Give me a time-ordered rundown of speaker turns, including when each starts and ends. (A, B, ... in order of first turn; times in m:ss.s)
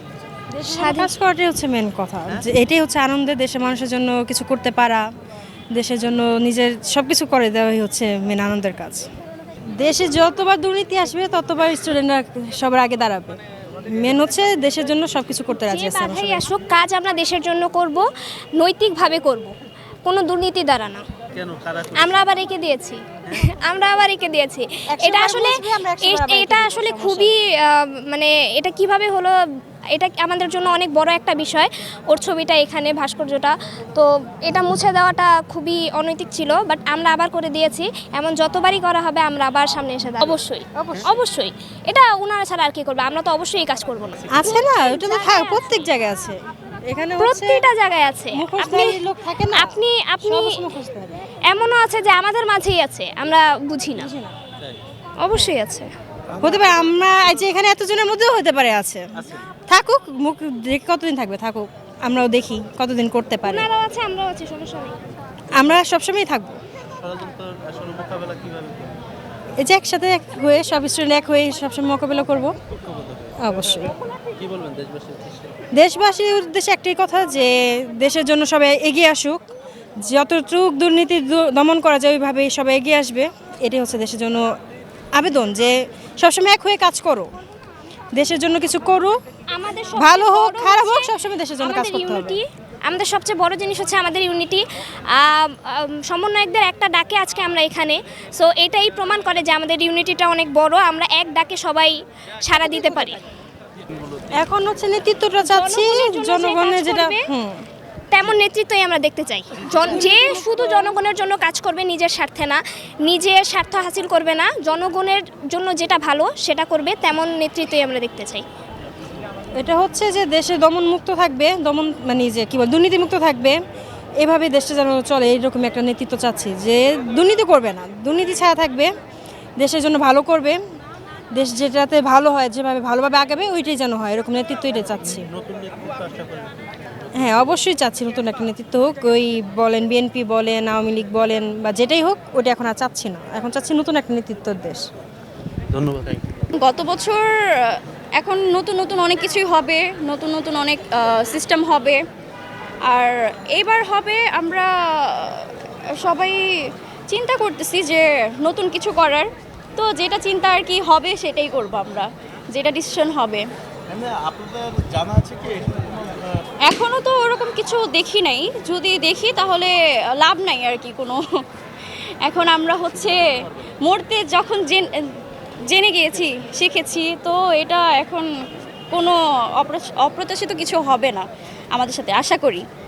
0:00.5-0:05.0 A
0:00.7-0:01.1 B
0:05.7-0:09.1 A
0:09.7-0:16.5 A
0:15.6-0:18.0 B
0:18.6-0:21.0 B
0:21.3-0:22.4 C
0:22.0-0:29.4 B
0:24.9-0:27.4 A
0:29.9-0:45.8 B
0:40.8-0:41.1 A
0:44.3-0:44.5 C
0:44.3-0:47.7 A
0:47.2-0:49.0 B
0:48.3-0:51.2 A
0:49.5-0:50.7 B
0:51.5-0:54.1 B
0:54.0-0:54.4 A
0:55.2-0:55.9 B
0:56.3-0:57.3 C
0:56.4-0:59.1 A
0:59.1-0:59.5 C
0:59.7-1:03.7 A
1:03.4-1:05.0 B
1:05.5-1:06.6 A
1:06.8-1:08.9 C
1:09.6-1:12.6 A
1:12.7-1:15.6 C
1:13.4-1:14.0 A
1:15.7-1:19.4 A
1:20.0-1:24.5 A
1:25.1-1:27.3 A
1:28.1-1:29.2 A
1:29.5-1:43.2 B
1:29.9-1:32.4 A
1:42.6-1:43.2 A
1:43.8-1:44.4 C
1:44.3-1:47.6 A
1:45.4-1:47.3 B
1:48.1-1:58.4 B
1:49.7-1:50.1 C
1:49.8-1:51.0 A
1:59.6-2:03.6 A
2:04.2-2:08.9 A
2:09.6-2:10.6 A
2:11.3-2:15.3 A
2:15.0-2:17.5 C
2:17.1-2:24.9 A
2:25.7-2:26.5 C
2:26.6-2:32.0 D
2:32.9-2:36.4 D
2:37.1-2:43.4 D
2:43.9-2:46.4 C
2:46.6-2:51.2 D
2:52.2-2:53.2 D
2:53.0-2:53.6 C
2:53.8-2:55.0 D
2:55.7-2:58.3 D
2:58.9-3:02.6 D